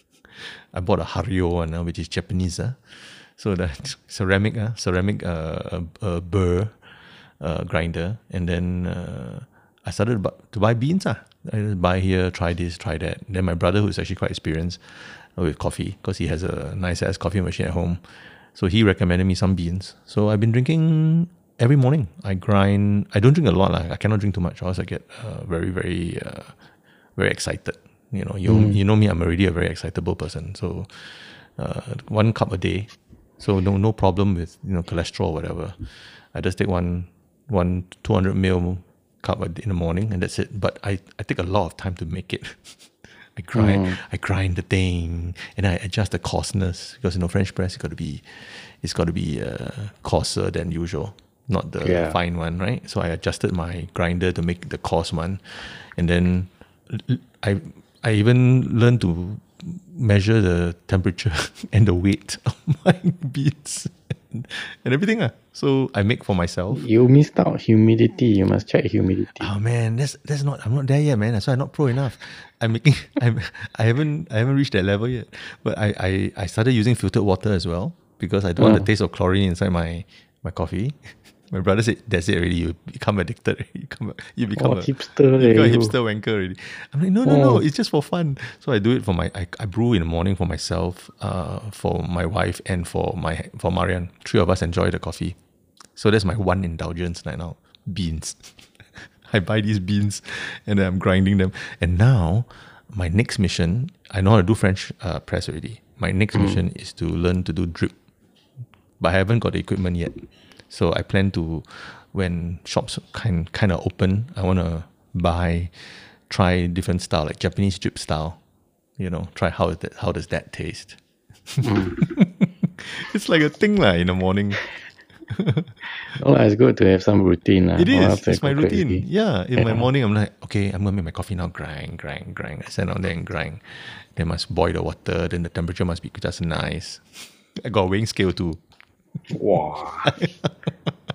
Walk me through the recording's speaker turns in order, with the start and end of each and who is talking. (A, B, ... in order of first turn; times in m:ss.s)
0:00.3-0:06.7 A
0:07.4-0:18.0 A
0:18.5-0:26.5 A
0:27.2-0:35.8 A
0:28.5-0:28.8 B
0:36.3-0:42.7 A
0:43.4-1:06.8 A
0:43.5-0:44.0 B
0:51.8-0:52.2 B
1:06.7-1:09.5 B
1:09.4-1:35.4 A
1:18.6-1:18.9 B
1:24.6-1:25.9 B
1:27.2-1:27.6 B
1:36.0-1:47.9 A
1:46.3-1:46.6 B
1:49.0-1:58.4 A
1:59.0-2:01.0 A
2:01.5-2:04.7 A
2:01.6-2:02.0 B
2:05.3-2:05.7 A
2:06.1-2:09.0 B
2:07.8-2:17.0 A
2:09.6-2:09.8 B
2:17.6-2:18.6 A
2:19.3-2:20.2 B
2:20.0-2:20.9 A